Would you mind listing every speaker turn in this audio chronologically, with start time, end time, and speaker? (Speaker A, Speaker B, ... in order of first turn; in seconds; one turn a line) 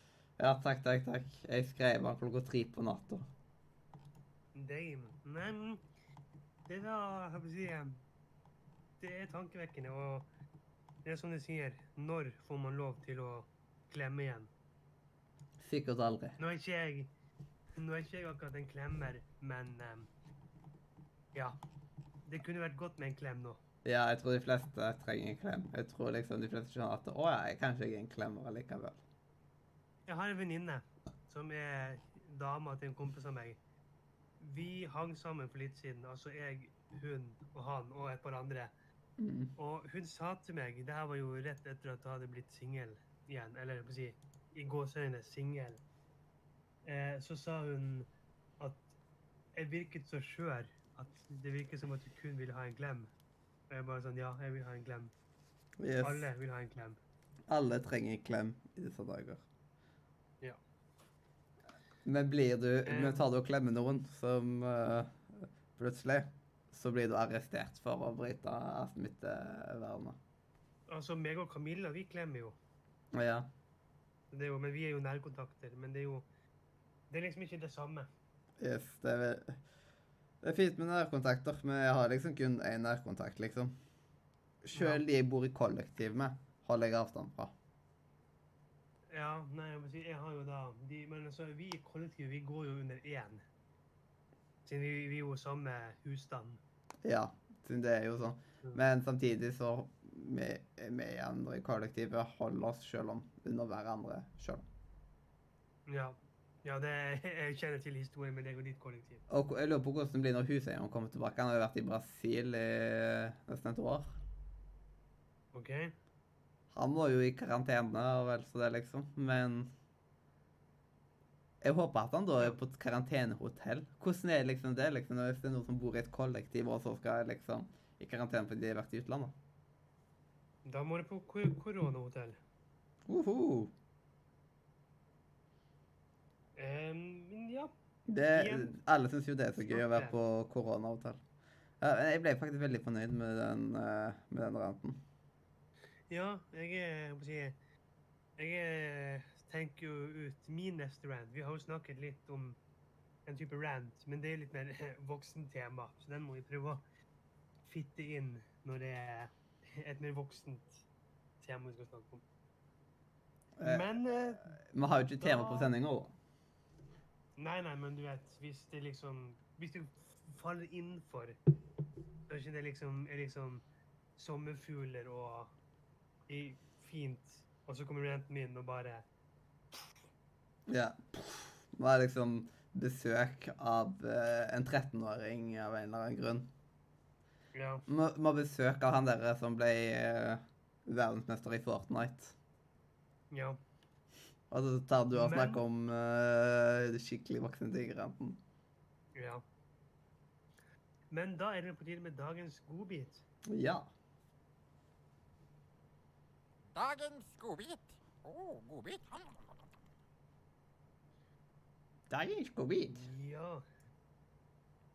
Speaker A: 0.4-3.3
Speaker B: 4.5-5.8
Speaker B: 6.7-8.0
Speaker B: 9.0-10.3
Speaker B: 11.0-14.5
Speaker A: 15.6-16.4
Speaker B: 16.4-17.1
Speaker B: 17.8-20.1
Speaker B: 22.2-23.6
Speaker A: 23.8-29.0
Speaker B: 30.1-33.6
Speaker B: 34.4-38.7
Speaker A: 39.2-39.5
Speaker B: 39.6-45.8
Speaker B: 46.8-48.1
Speaker B: 48.6-48.9
Speaker B: 49.5-53.1
Speaker B: 53.7-55.1
Speaker A: 55.8-56.2
Speaker B: 56.0-57.0
Speaker A: 57.5-59.4
Speaker A: 62.0-70.2
Speaker B: 62.8-63.2
Speaker B: 70.9-72.6
Speaker A: 73.1-73.5
Speaker B: 74.3-76.3
Speaker B: 77.1-78.1
Speaker A: 78.6-79.6
Speaker A: 80.4-83.8
Speaker A: 84.6-87.5
Speaker B: 84.7-85.0
Speaker B: 89.1-93.4
Speaker B: 94.6-96.6
Speaker A: 97.0-104.6
Speaker B: 105.9-109.2
Speaker A: 109.3-114.2
Speaker B: 115.5-116.0
Speaker A: 116.7-119.7
Speaker A: 121.6-129.3
Speaker B: 130.7-132.4
Speaker A: 133.1-133.7
Speaker B: 136.6-138.8
Speaker A: 138.1-141.2
Speaker B: 139.6-140.2
Speaker A: 141.8-145.0
Speaker B: 146.1-147.6
Speaker B: 148.4-152.6
Speaker B: 153.2-156.8
Speaker B: 157.6-160.8
Speaker B: 161.4-162.2
Speaker A: 163.6-163.9
Speaker B: 163.6-164.5
Speaker A: 164.4-166.1
Speaker B: 165.2-165.7
Speaker B: 167.4-171.4
Speaker B: 172.3-173.6
Speaker B: 174.2-175.5
Speaker B: 176.3-179.0
Speaker A: 180.7-186.5
Speaker B: 187.5-187.8
Speaker A: 187.9-192.3
Speaker B: 193.3-193.6
Speaker A: 194.5-198.4
Speaker B: 195.1-195.6
Speaker B: 199.1-199.4
Speaker B: 201.1-203.2
Speaker A: 203.5-203.9
Speaker C: 206.7-209.5
Speaker A: 212.1-213.0
Speaker B: 212.9-213.6